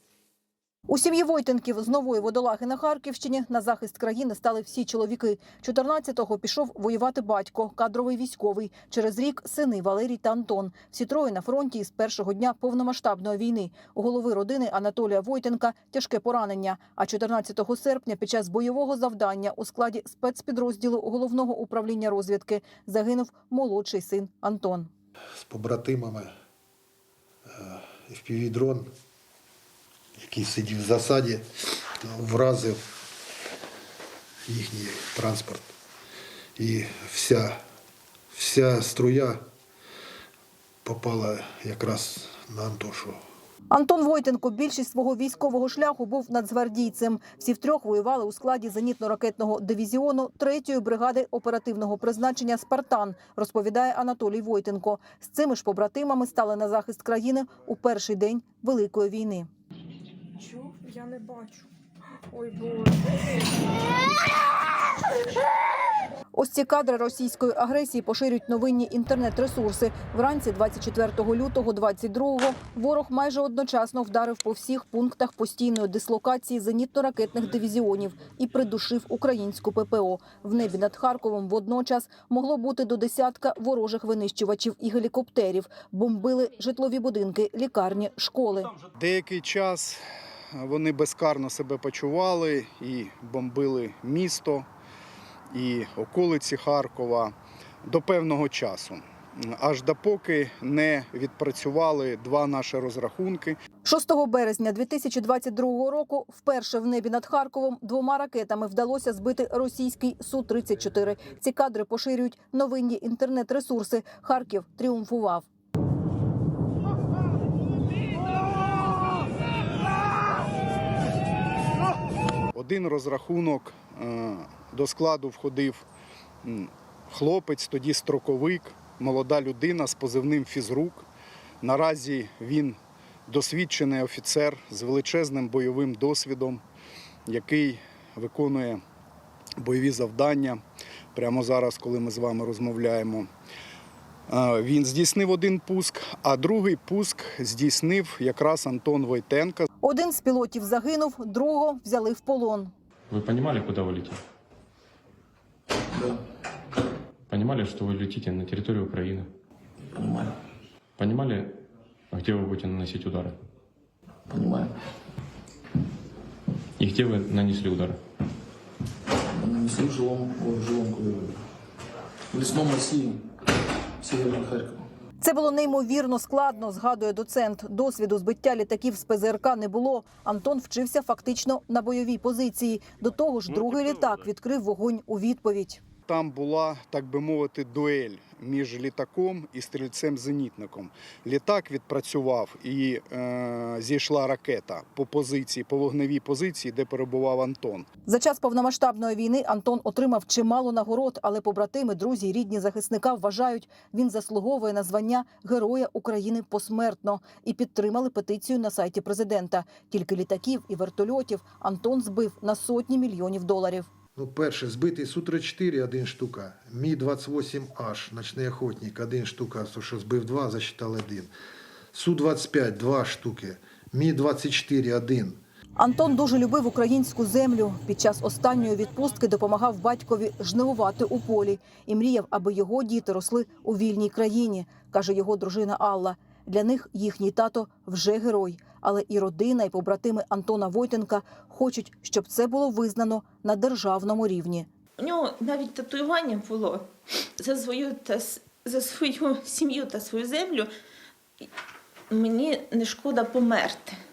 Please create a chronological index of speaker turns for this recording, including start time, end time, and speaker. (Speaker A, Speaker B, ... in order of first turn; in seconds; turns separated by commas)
Speaker A: 0.9-24.9, Speaker B: 25.4-26.3, Speaker B: 27.5-28.9, Speaker B: 30.2-31.4, Speaker B: 32.0-32.8, Speaker B: 34.5-35.7, Speaker B: 36.6-37.6, Speaker B: 38.3-39.4, Speaker B: 40.8-43.2, Speaker A: 43.7-59.5, Speaker C: 60.4-61.7, Speaker C: 62.3-63.3, Speaker A: 66.3-88.7, Speaker D: 89.0-90.0, Speaker D: 90.6-94.7, Speaker D: 95.5-97.3, Speaker D: 97.8-103.6, Speaker A: 103.8-115.5, Speaker D: 122.5-125.9, Speaker D: 126.4-131.1, Speaker D: 131.6-136.6, Speaker D: 137.3-138.8, Speaker D: 139.6-140.6, Speaker D: 141.1-143.3, Speaker D: 144.3-149.6, Speaker A: 149.8-152.7, Speaker E: 153.1-154.2, Speaker E: 157.3-159.3, Speaker F: 160.0-160.3, Speaker E: 161.0-163.3, Speaker F: 164.3-164.7, Speaker E: 166.8-168.0, Speaker F: 169.4-171.3, Speaker F: 172.3-173.1, Speaker F: 174.0-174.7, Speaker A: 175.2-185.8, Speaker D: 186.1-197.9, Speaker A: 198.1-213.9, Speaker B: 214.2-221.3, Speaker B: 221.9-225.4, Speaker A: 225.8-244.7, Speaker G: 245.0-250.7, Speaker G: 252.1-254.0